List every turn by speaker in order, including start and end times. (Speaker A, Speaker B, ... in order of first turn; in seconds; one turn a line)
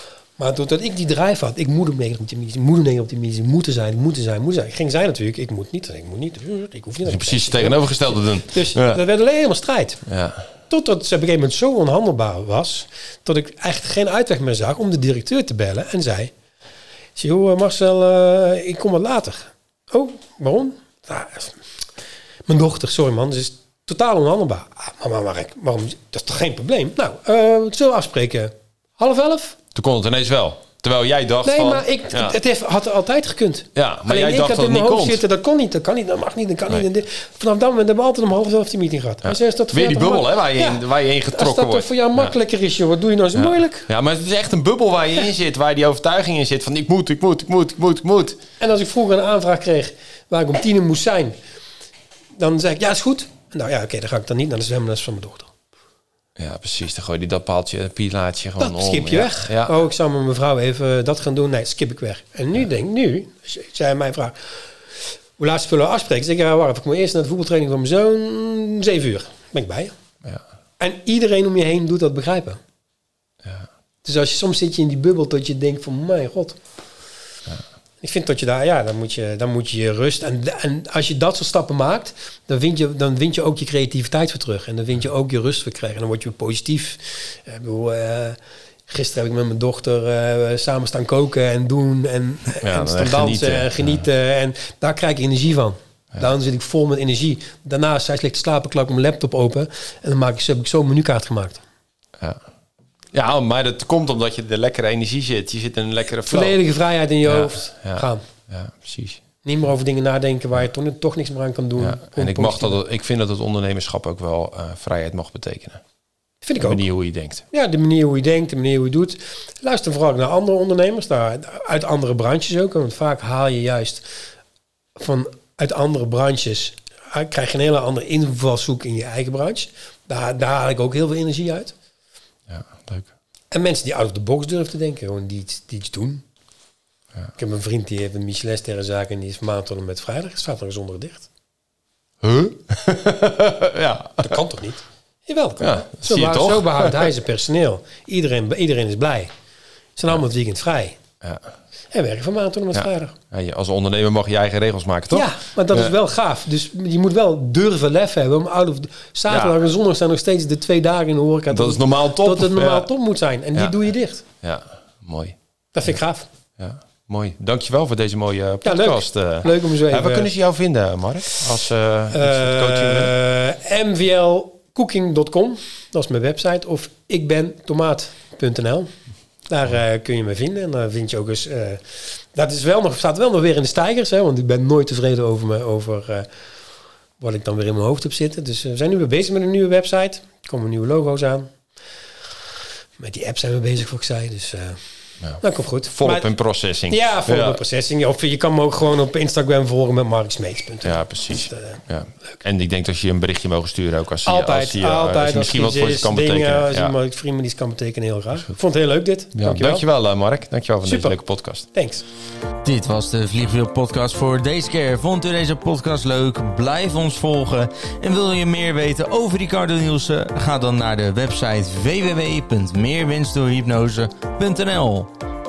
Speaker A: 0.4-10.0
Speaker B: 7.1-9.0
Speaker B: 10.1-10.5
Speaker A: 10.7-16.3
Speaker A: 17.2-21.6
Speaker A: 22.5-29.6
Speaker B: 29.8-32.4
Speaker A: 31.4-43.9
Speaker B: 33.8-35.2
Speaker B: 39.2-42.3
Speaker B: 43.4-48.4
Speaker A: 48.6-51.4
Speaker A: 52.4-55.5
Speaker B: 56.4-59.7
Speaker A: 58.6-64.7
Speaker A: 65.4-70.0
Speaker A: 70.8-72.6
Speaker A: 74.0-76.6
Speaker A: 78.0-101.6
Speaker B: 92.6-94.0
Speaker B: 103.1-106.6
Speaker A: 106.3-108.2
Speaker B: 107.2-109.2
Speaker A: 109.4-112.8
Speaker B: 111.8-115.8
Speaker A: 116.4-116.8
Speaker B: 116.6-117.5
Speaker A: 117.5-124.1
Speaker A: 125.0-131.8
Speaker B: 132.5-133.1
Speaker A: 133.5-136.2
Speaker A: 137.4-141.3
Speaker B: 142.2-144.4
Speaker A: 144.2-149.3
Speaker B: 145.6-147.1
Speaker A: 150.0-151.0
Speaker A: 151.9-153.2
Speaker B: 152.7-155.9
Speaker A: 155.1-164.2
Speaker B: 159.3-159.6
Speaker B: 161.5-162.9
Speaker B: 164.4-165.4
Speaker A: 165.7-166.3
Speaker B: 166.6-173.1
Speaker A: 168.6-170.3
Speaker A: 172.1-178.9
Speaker A: 179.5-186.3
Speaker A: 187.2-191.5
Speaker A: 193.0-194.8
Speaker B: 195.2-197.6
Speaker A: 195.4-196.3
Speaker A: 196.9-201.8
Speaker B: 200.8-206.9
Speaker A: 204.2-209.8
Speaker B: 209.3-211.7
Speaker A: 210.8-212.0
Speaker C: 212.6-225.1